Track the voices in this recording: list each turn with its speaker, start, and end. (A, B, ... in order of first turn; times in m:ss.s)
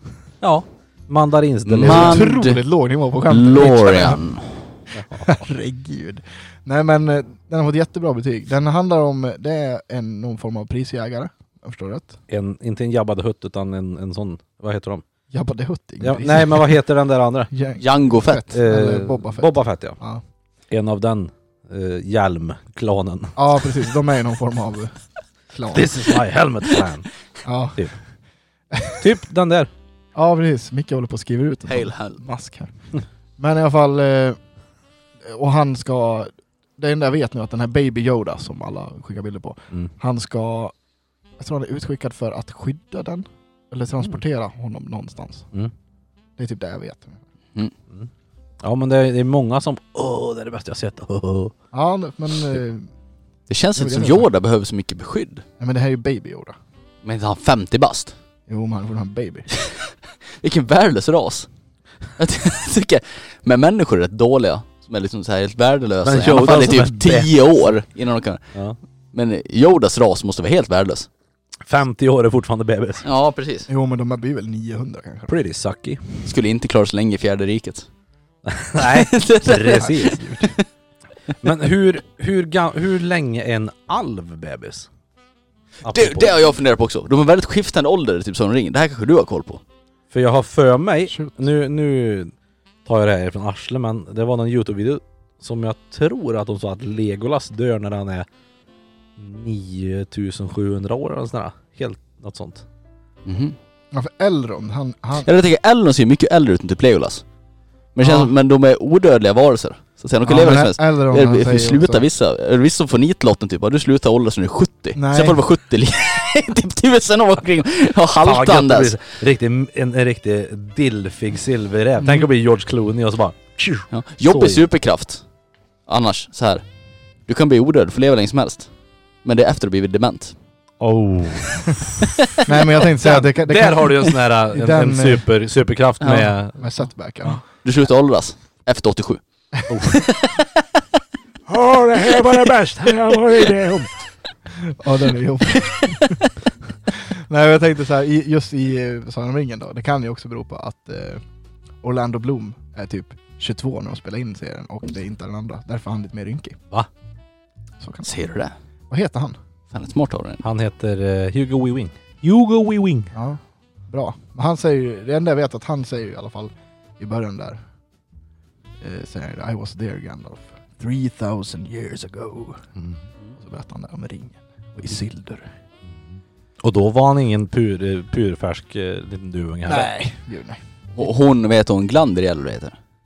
0:00.4-0:02.3 A
0:01.7-0:02.6 B
0:01.8-0:04.2 C
0:03.3-0:04.7 B
0:04.9-0:05.3 A
0:05.2-0:12.2 C
0:12.3-0:15.0 A
0:15.3-0:16.8 C
0:16.0-0:17.5 A
0:17.5-0:20.2 C
0:17.8-0:18.5 B
0:18.5-0:20.0 A
0:20.7-0:23.4 A
0:23.4-0:24.9 C
0:25.5-0:25.9 C
0:25.7-0:27.1 A
0:27.4-0:27.9 C
0:28.7-0:29.1 C
0:29.0-0:29.7 A
0:30.2-0:32.7 C
0:31.7-0:32.2 B
0:33.4-0:34.4 C
0:35.2-0:40.7 C
0:41.4-0:45.5 C
0:46.4-0:47.2 C
0:48.6-0:51.5 A
0:51.7-0:52.9 C
0:53.5-0:55.4 B
0:53.8-0:54.3 C
0:55.6-0:56.6 C
0:57.0-0:58.2 B
0:58.5-0:59.5 C
0:59.5-1:01.5 B
1:02.2-1:08.4 B
1:06.0-1:07.5 A
1:09.1-1:11.1 B
1:11.6-1:13.0 A
1:13.0-1:13.7 B
1:13.7-1:15.3 C
1:15.3-1:16.3 A
1:16.2-1:17.9 B
1:18.5-1:20.4 A
1:18.8-1:20.6 B
1:19.7-1:20.5 C
1:21.4-1:24.9 A
1:25.8-1:26.4 A
1:25.8-1:29.6 B
1:30.1-1:32.3 A
1:32.9-1:38.3 A
1:39.2-1:42.6 A
1:43.2-1:43.6 B
1:43.9-1:45.3 C
1:45.2-1:47.2 B
1:48.0-1:59.0 B
1:48.0-1:48.3 C
1:50.2-1:52.1 C
1:55.0-1:55.4 C
1:58.2-2:04.6 A
2:03.9-2:05.2 B
2:05.9-2:06.6 B
2:07.3-2:08.7 B
2:09.2-2:10.4 B
2:10.8-2:12.3 A
2:12.4-2:15.3 C
2:12.9-2:16.7 A
2:16.0-2:16.3 B
2:16.1-2:17.4 C
2:17.6-2:19.2 B
2:19.7-2:20.0 A
2:19.9-2:20.5 B
2:21.5-2:23.9 A
2:24.5-2:26.2 C
2:26.9-2:31.2 C
2:31.8-2:36.6 C
2:37.8-2:38.2 C
2:38.0-2:38.5 B
2:38.9-2:39.4 C
2:39.7-2:40.4 B
2:40.4-2:43.1 A
2:43.1-2:47.6 C
2:48.8-2:52.7 C
2:52.8-2:53.0 A
2:53.4-2:55.5 C
2:56.6-2:59.9 A
2:59.7-3:00.6 C
3:01.0-3:02.8 B